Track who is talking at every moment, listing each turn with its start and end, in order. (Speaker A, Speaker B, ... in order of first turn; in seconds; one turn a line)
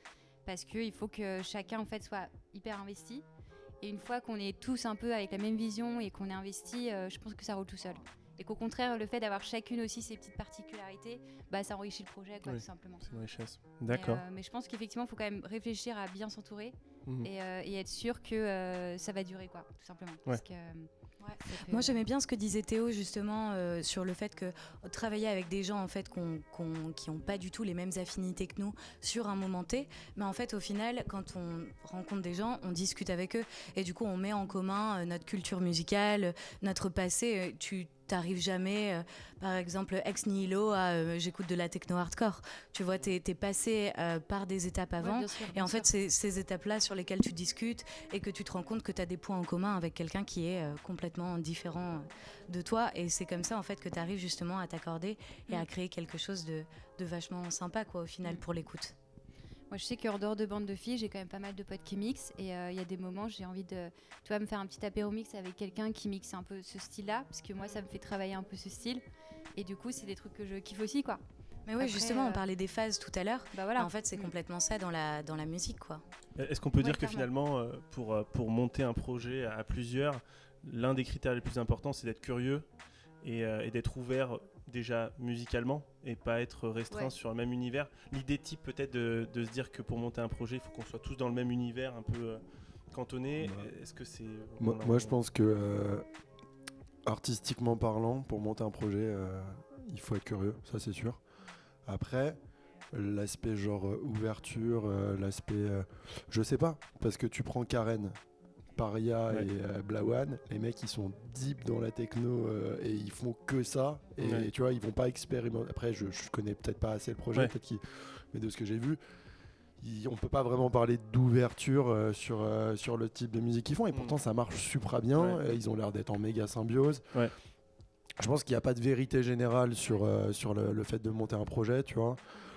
Speaker A: 0.5-3.2
Speaker A: 3.8-13.1
Speaker B: 12.4-14.2
Speaker A: 13.9-22.0
Speaker C: 21.7-58.9
Speaker A: 45.0-45.9
Speaker A: 59.7-69.0
Speaker A: 69.5-71.2
Speaker C: 71.7-76.0
Speaker A: 71.8-72.4
Speaker A: 73.5-74.3
Speaker B: 76.4-82.6
Speaker A: 76.8-77.3
Speaker B: 83.2-95.2
Speaker D: 93.4-93.7
Speaker D: 94.6-96.0
Speaker D: 97.0-101.2
Speaker D: 101.8-102.4
Speaker D: 102.9-108.2
Speaker D: 108.8-119.0
Speaker B: 114.2-114.5
Speaker D: 119.8-127.0
Speaker D: 128.2-132.2